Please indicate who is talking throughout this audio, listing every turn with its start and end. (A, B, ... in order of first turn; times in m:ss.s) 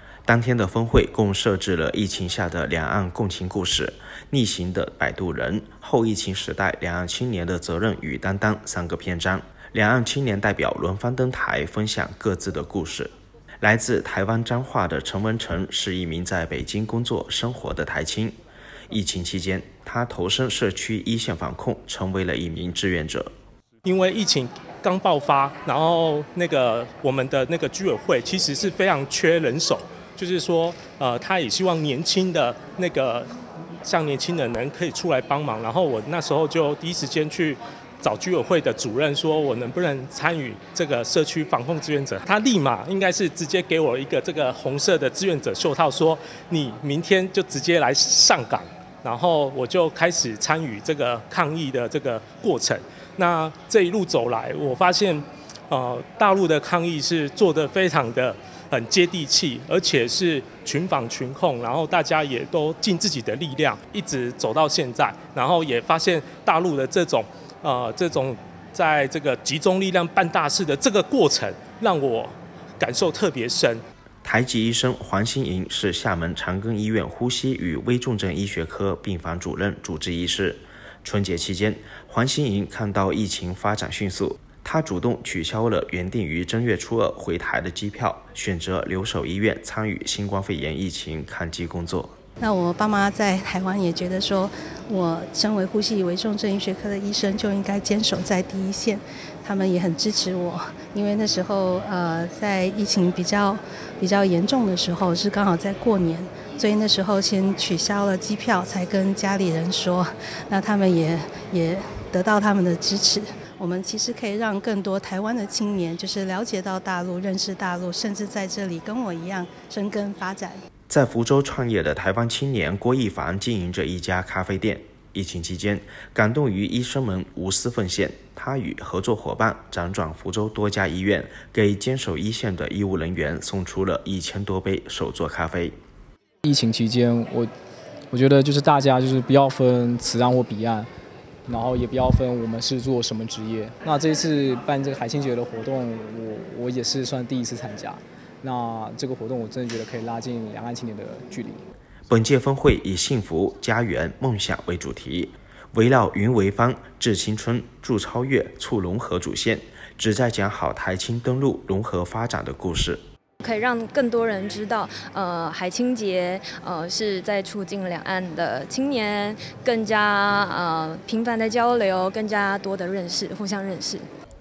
0:00.3-0:13.1 A
0:13.6-0:18.4 A
0:18.9-0:23.3 A
0:23.8-0:33.3 B
0:33.8-1:13.8 B
1:14.2-1:32.1 A
1:32.4-2:00.6 C
2:00.9-2:15.8 A
2:16.4-2:17.5 D
2:18.1-2:20.9 D
2:21.5-2:31.6 D
2:32.1-2:43.0 A
2:43.4-2:54.1 E